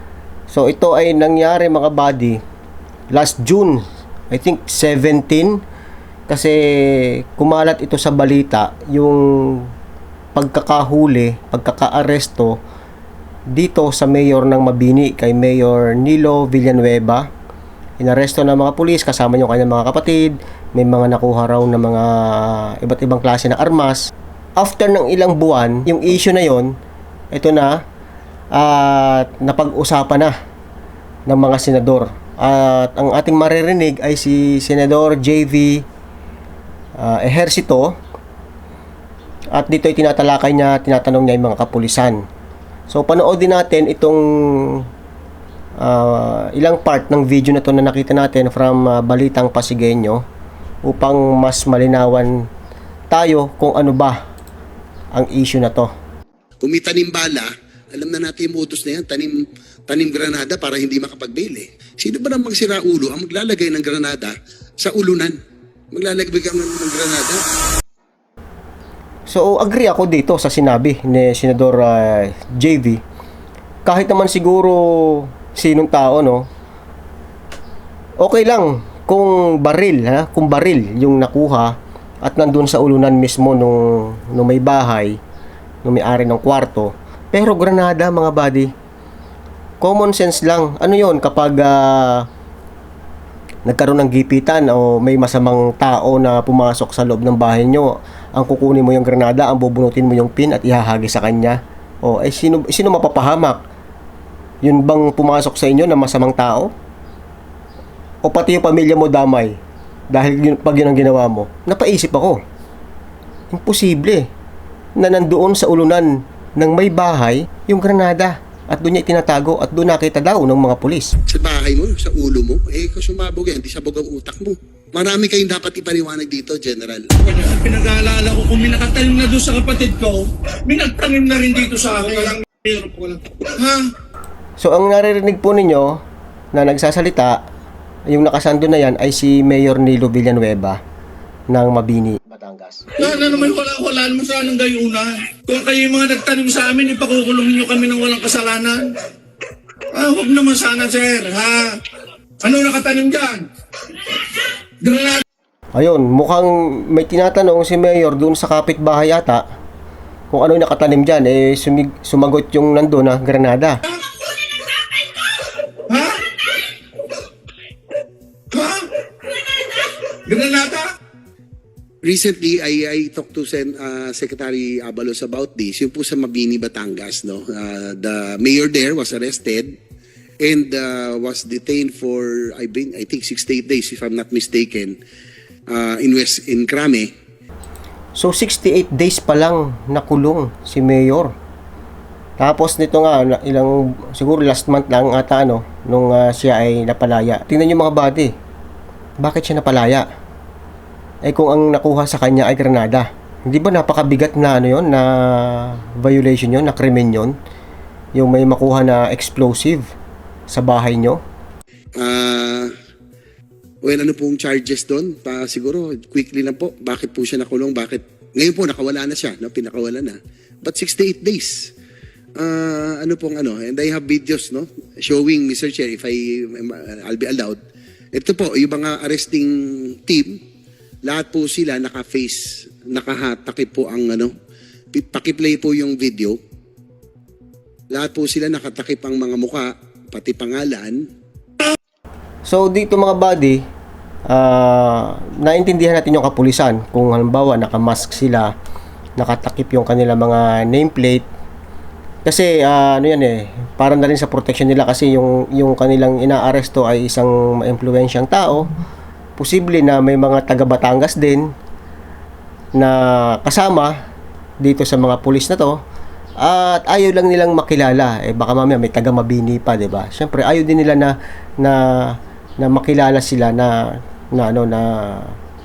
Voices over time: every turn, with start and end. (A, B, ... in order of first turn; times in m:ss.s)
0:00.5-0:02.4 A
0:03.1-0:05.6 A
0:06.3-0:09.7 A
0:10.3-0:12.6 A
0:13.5-0:17.3 A
0:18.0-0:26.7 A
0:27.3-0:27.8 A
0:28.5-0:30.3 A
0:31.3-0:35.8 A
0:37.0-0:37.9 A
0:39.5-0:42.2 A
0:42.9-0:44.8 A
0:45.8-0:50.2 A
0:50.8-0:52.4 A
0:53.1-0:54.2 A
0:55.1-0:55.9 A
0:56.6-1:05.4 B
1:05.9-1:07.4 B
1:09.3-1:13.0 A
1:13.8-1:16.5 A
1:18.2-1:25.2 A
1:25.8-1:28.7 A
1:29.8-1:32.2 A
1:33.7-1:43.6 A
1:44.6-1:46.7 A
1:48.2-1:49.6 A
1:50.1-1:52.4 A
1:53.5-1:54.2 A
1:55.0-2:01.1 A
2:01.3-2:07.2 B
2:07.2-2:13.9 C
2:14.6-2:16.0 A
2:16.5-2:17.4 A
2:18.1-2:20.8 A
2:21.5-2:23.3 A
2:23.0-2:28.9 C
2:29.9-2:31.8 C
2:32.4-2:33.4 C
2:34.8-2:35.2 C
2:35.7-2:39.4 A
2:40.3-2:43.8 A
2:45.9-2:46.2 C
2:48.5-2:48.9 C
2:50.2-2:50.9 C
2:52.0-2:59.8 B
3:00.4-3:05.0 B
3:05.7-3:07.1 B
3:08.2-3:11.3 A
3:12.4-3:18.3 A
3:19.2-3:20.0 A
3:21.2-3:27.3 A
3:28.1-3:29.8 A
3:30.5-3:31.2 A
3:32.0-3:32.7 B
3:33.8-3:41.7 B
3:42.4-3:47.6 B
3:48.2-3:50.4 B
3:51.1-3:54.3 B
3:54.9-3:56.4 B
3:57.9-4:01.0 B
4:02.4-4:03.6 A
4:04.3-4:08.5 A
4:09.2-4:11.3 A
4:12.2-4:18.7 A
4:19.4-4:21.5 A
4:22.7-4:23.9 A
4:24.6-4:25.8 A
4:26.4-4:35.4 A